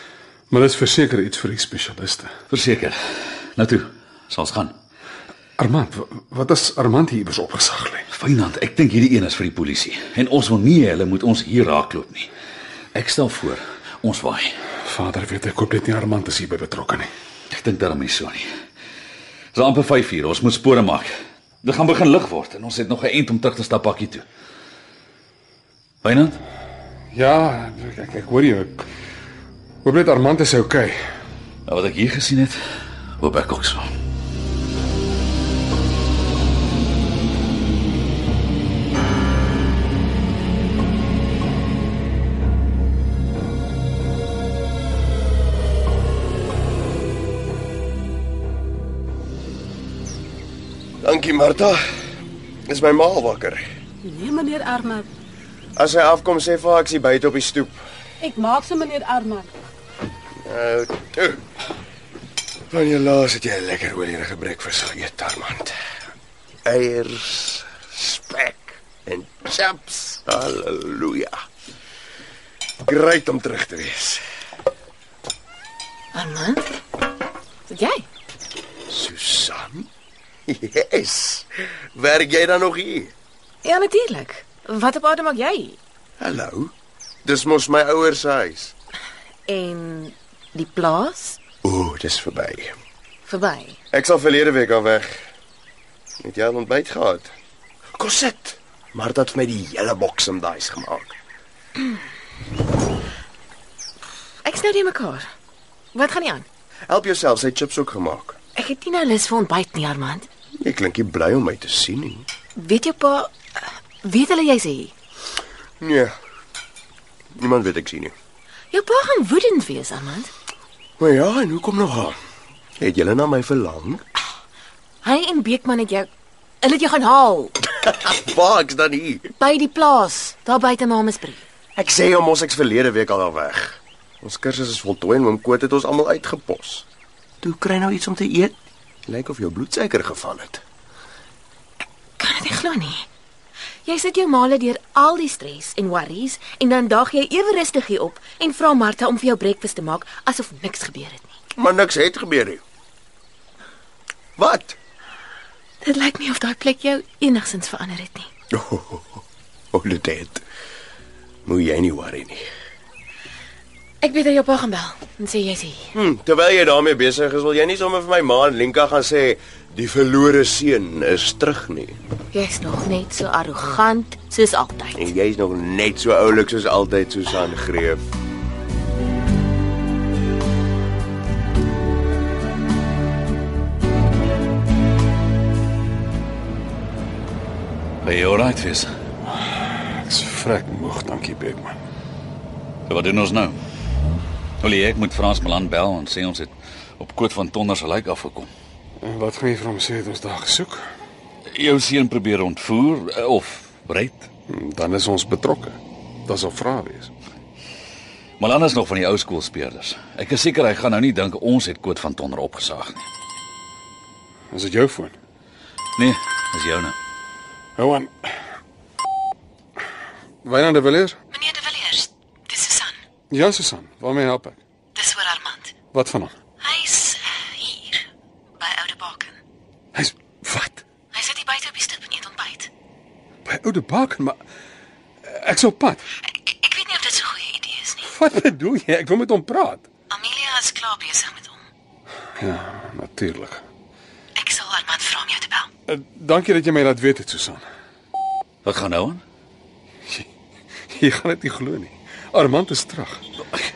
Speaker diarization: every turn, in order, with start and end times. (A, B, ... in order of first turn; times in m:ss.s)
0:00.5-0:02.3 A
0:02.5-0:02.9 B
0:03.6-0:04.7 B
0:05.6-0:08.1 A
0:08.1-0:12.3 B
0:12.9-0:14.5 B
0:14.8-0:17.1 A
0:17.5-0:18.4 B
0:19.5-0:21.1 B
0:21.6-0:24.2 B
0:26.0-0:26.4 B
0:27.1-0:28.8 A
0:29.8-0:31.0 A
0:31.7-0:32.6 B
0:33.2-0:33.9 B
0:51.0-0:51.8 C
0:52.7-0:53.6 C
0:54.0-0:55.0 D
0:55.8-0:57.8 C
0:58.2-0:59.5 D
1:00.4-1:01.4 C
1:02.7-1:05.8 C
1:06.6-1:11.4 C
1:12.8-1:14.2 C
1:16.1-1:16.6 E
1:17.7-1:18.0 E
1:18.9-1:19.9 C
1:20.5-1:23.1 C
1:23.6-1:25.8 E
1:26.2-1:26.7 C
1:27.2-1:28.7 C
1:29.5-1:31.4 E
1:31.6-1:32.7 C
1:33.3-1:33.8 E
1:33.9-1:35.1 C
1:36.2-1:37.3 C
1:38.0-1:41.1 C
1:44.4-1:45.3 E
1:46.0-1:46.5 E
1:46.9-1:48.4 C
1:48.6-1:50.3 E
1:50.6-1:52.3 C
1:52.6-1:54.9 E
1:55.8-1:56.1 C
1:57.4-1:58.1 C
1:58.7-2:00.3 E
2:01.0-2:02.2 C
2:02.8-2:04.0 C
2:05.0-2:06.1 E
2:06.6-2:07.7 E
2:07.8-2:09.3 C
2:09.4-2:11.4 E
2:11.8-2:16.9 C
2:17.4-2:18.6 C
2:19.1-2:20.6 C
2:22.2-2:23.1 E
2:23.9-2:31.3 E
2:31.6-2:32.6 C
2:34.4-2:34.8 C
2:35.8-2:38.3 E
2:38.5-2:39.2 C
2:39.7-2:40.4 C
2:41.5-2:42.5 C
2:44.0-2:45.9 E
2:45.9-2:52.0 C
2:52.3-2:55.1 E
2:55.0-2:58.0 C
3:08.0-3:08.9 B
3:09.9-3:11.8 A
3:12.9-3:13.6 B
3:14.6-3:18.5 B
3:19.0-3:20.8 A
3:21.5-3:24.3 B
3:24.5-3:27.1 A
3:28.4-3:33.1 B
3:34.5-3:35.2 A
3:36.0-3:37.0 B
3:37.8-3:38.3 A
3:40.4-3:41.2 A
3:41.3-3:43.0 E
3:43.3-3:44.6 A
3:45.0-3:45.8 E
3:45.9-3:46.4 A
3:46.6-3:48.0 E
3:48.6-3:49.4 E
3:49.9-3:50.8 A
3:51.1-3:52.7 E
3:53.5-3:54.4 A
3:55.2-3:56.1 A
3:56.5-3:58.0 E
3:58.1-3:59.9 A
4:00.1-4:01.6 E
4:02.4-4:03.7 A
4:04.4-4:05.7 E
4:05.9-4:07.6 A
4:08.6-4:09.2 B
4:10.9-4:13.2 A